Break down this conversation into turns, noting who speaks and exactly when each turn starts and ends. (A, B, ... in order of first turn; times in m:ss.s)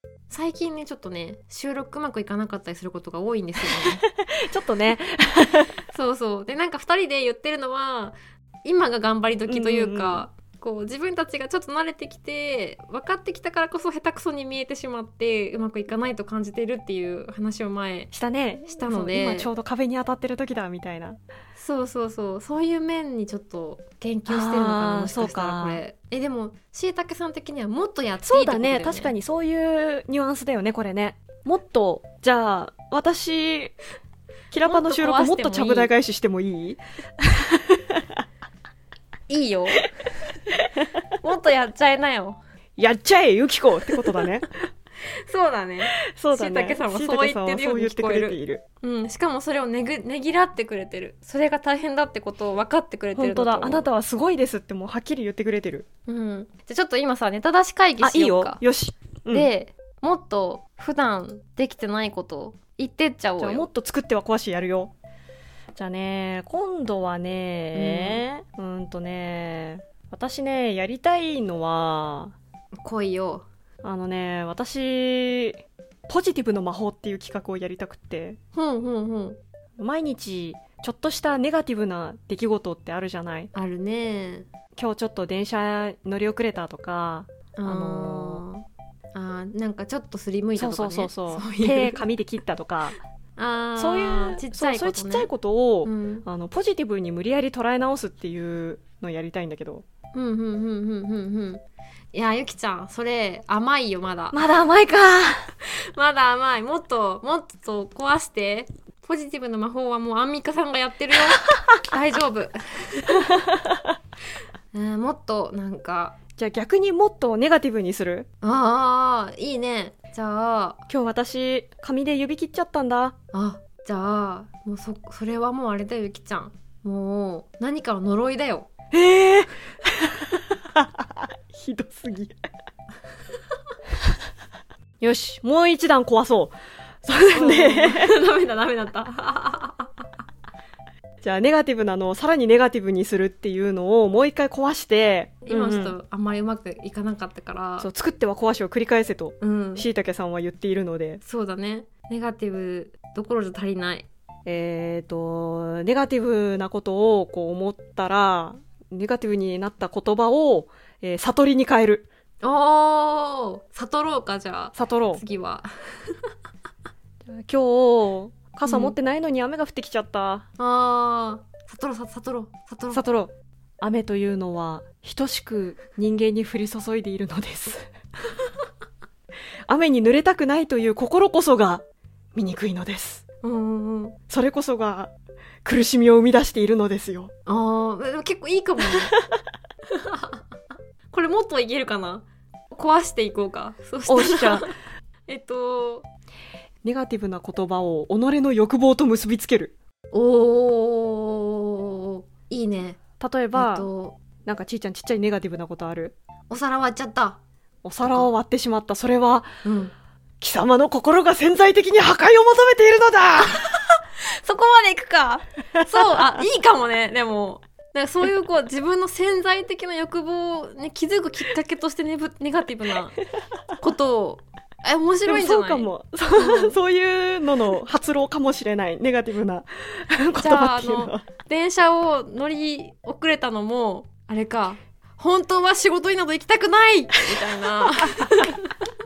0:00.3-0:04.0 A
0:04.0-0:05.7 B
0:05.9-0:18.1 A
0:09.5-0:10.2 B
0:18.1-0:21.2 B
0:18.7-0:19.5 A
0:21.5-0:29.1 A
0:24.3-0:25.8 B
0:28.2-0:33.7 B
0:34.5-0:38.0 B
0:34.6-0:35.9 A
0:39.3-0:40.2 A
0:41.2-0:42.4 A
0:42.8-0:44.5 B
0:44.0-0:44.5 A
0:45.1-0:53.9 A
0:46.1-0:48.6 B
0:53.2-0:55.8 B
0:56.1-0:58.6 A
0:58.0-0:59.5 B
0:59.3-1:03.7 A
1:03.4-1:04.9 B
1:05.8-1:12.3 B
1:07.7-1:08.2 A
1:12.8-1:13.4 A
1:13.8-1:18.4 B
1:18.5-1:19.4 A
1:19.8-1:23.5 B
1:23.5-1:24.5 A
1:24.7-1:28.4 B
1:27.6-1:32.0 A
1:30.6-1:33.0 B
1:33.4-1:35.3 A
1:33.8-1:39.8 B
1:35.8-1:36.2 A
1:40.1-1:41.6 A
1:42.1-1:44.4 A
1:44.3-1:45.5 B
1:45.6-1:53.2 A
1:53.3-1:53.8 B
1:54.7-1:56.2 A
1:56.4-1:58.3 B
1:58.4-2:00.8 A
2:00.9-2:03.1 B
2:03.3-2:08.7 A
2:08.9-2:12.3 B
2:15.0-2:18.1 B
2:17.3-2:20.0 A
2:21.2-2:26.0 B
2:25.4-2:27.9 A
2:27.8-2:31.2 B
2:29.4-2:29.8 A
2:31.2-2:34.1 A
2:34.4-2:42.1 B
2:42.4-2:46.2 A
2:44.7-2:45.2 B
2:47.2-2:50.5 B
2:48.6-2:49.0 A
2:50.6-2:53.0 A
2:52.9-2:57.9 B
2:59.7-3:01.8 B
3:02.3-3:03.2 B
3:03.4-3:04.2 A
3:04.3-3:05.1 B
3:05.6-3:07.3 B
3:07.5-3:09.1 A
3:09.9-3:10.4 A
3:11.1-3:14.7 A
3:14.1-3:14.7 B
3:15.3-3:16.1 A
3:16.8-3:19.7 B
3:20.1-3:23.0 A
3:23.2-3:23.9 B
3:23.5-3:24.2 A
3:24.4-3:26.2 B
3:26.5-3:27.4 A
3:27.8-3:29.5 B
3:28.0-3:28.3 A
3:29.6-3:29.9 A
3:30.4-3:33.6 B
3:33.6-3:43.2 A
3:35.9-3:36.4 B
3:43.8-3:46.8 A
3:45.2-3:51.2 B
3:50.4-3:58.6 A